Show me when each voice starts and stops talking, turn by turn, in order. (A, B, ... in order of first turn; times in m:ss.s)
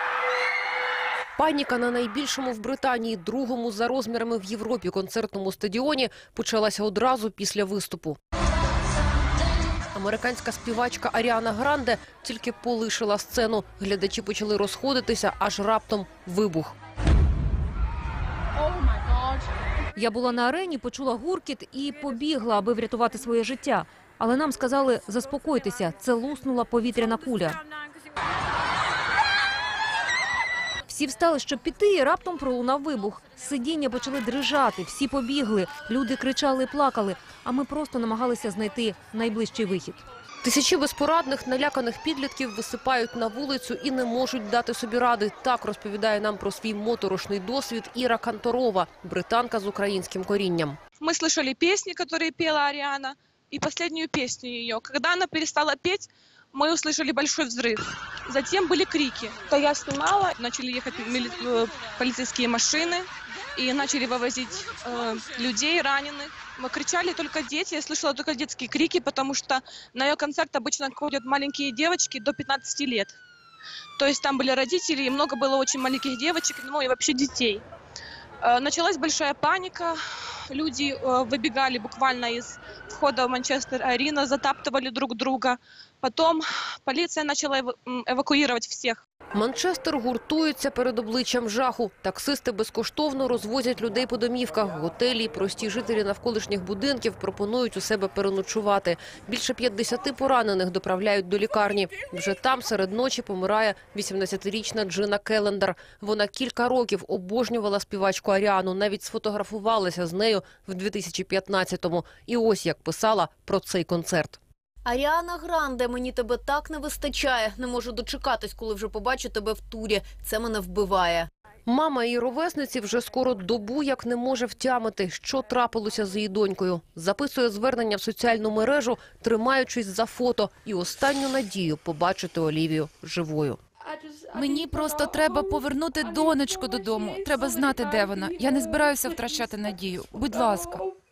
0:01.4-0:08.2 A
0:09.9-0:16.7 A
0:20.0-0:27.6 B
0:30.9-0:40.0 B
0:40.4-0:50.8 A
0:51.0-1:13.2 C
1:14.0-1:17.6 C
1:18.4-1:20.0 C
1:20.5-1:29.0 C
1:29.3-1:54.4 A
1:54.8-2:01.3 D
2:01.7-2:13.6 A
2:14.3-2:20.9 E